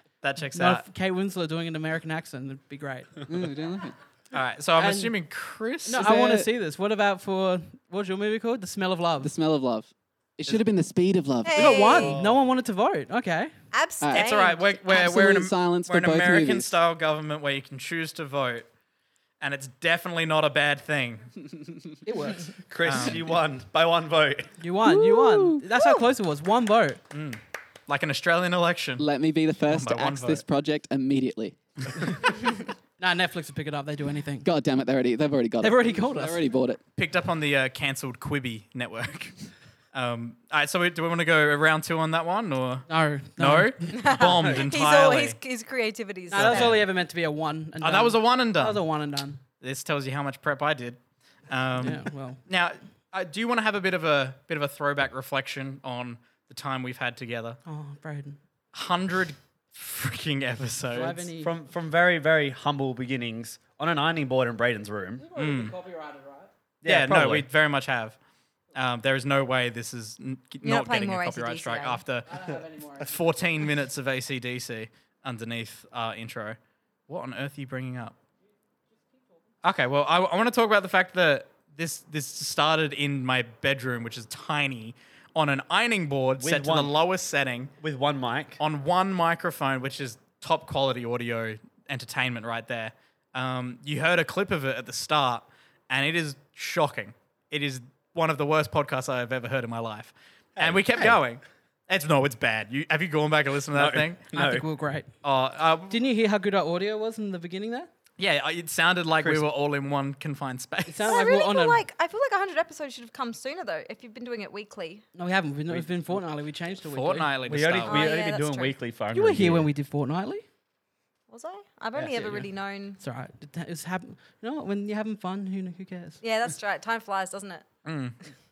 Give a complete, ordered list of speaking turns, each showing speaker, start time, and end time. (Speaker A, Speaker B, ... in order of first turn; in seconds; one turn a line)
Speaker A: 0.2-0.8
Speaker B: 0.5-3.1
Speaker C: 3.3-4.0
Speaker A: 4.3-6.1
Speaker B: 4.8-5.2
Speaker B: 5.8-9.3
Speaker C: 5.9-6.5
Speaker C: 9.2-11.9
Speaker D: 11.4-12.2
Speaker B: 11.5-13.5
Speaker E: 12.0-12.4
Speaker D: 13.7-14.9
Speaker C: 14.0-14.3
Speaker A: 14.1-18.7
Speaker C: 14.9-16.7
Speaker A: 19.4-21.3
Speaker B: 22.1-22.5
Speaker E: 22.7-24.5
Speaker A: 22.8-23.3
Speaker B: 24.6-27.0
Speaker C: 24.8-26.0
Speaker A: 27.1-29.1
Speaker C: 29.0-31.9
Speaker A: 29.7-30.4
Speaker B: 33.0-34.5
Speaker C: 34.4-36.8
Speaker B: 35.6-36.4
Speaker A: 37.0-39.3
Speaker A: 39.9-45.4
Speaker B: 42.9-44.0
Speaker D: 43.9-46.8
Speaker B: 46.3-49.4
Speaker A: 46.4-46.8
Speaker A: 47.8-48.8
Speaker A: 49.6-51.0
Speaker A: 51.5-57.6
Speaker B: 51.8-52.4
Speaker B: 57.6-58.4
Speaker A: 58.7-61.3
Speaker B: 60.9-61.5
Speaker E: 61.4-65.2
Speaker B: 65.2-66.5
Speaker A: 65.4-65.7
Speaker E: 66.8-67.5
Speaker A: 66.8-68.2
Speaker A: 68.8-72.3
Speaker D: 70.6-72.0
Speaker B: 72.3-73.1
Speaker A: 73.0-76.6
Speaker A: 77.1-78.2
Speaker A: 79.6-87.7
Speaker E: 86.4-86.9
Speaker E: 87.8-88.6
Speaker A: 88.6-104.2
Speaker E: 100.6-101.2
Speaker E: 103.8-104.7
Speaker B: 104.3-105.1
Speaker A: 105.2-106.0
Speaker B: 105.9-107.9
Speaker A: 108.2-111.2
Speaker B: 110.9-111.8
Speaker D: 111.0-115.0
Speaker B: 115.2-117.3
Speaker A: 116.9-118.1
Speaker E: 117.5-119.7
Speaker D: 117.9-118.8
Speaker B: 119.1-120.5
Speaker D: 121.3-123.0
Speaker E: 121.9-122.5
Speaker B: 123.0-126.2
Speaker D: 126.2-127.6
Speaker A: 127.8-128.2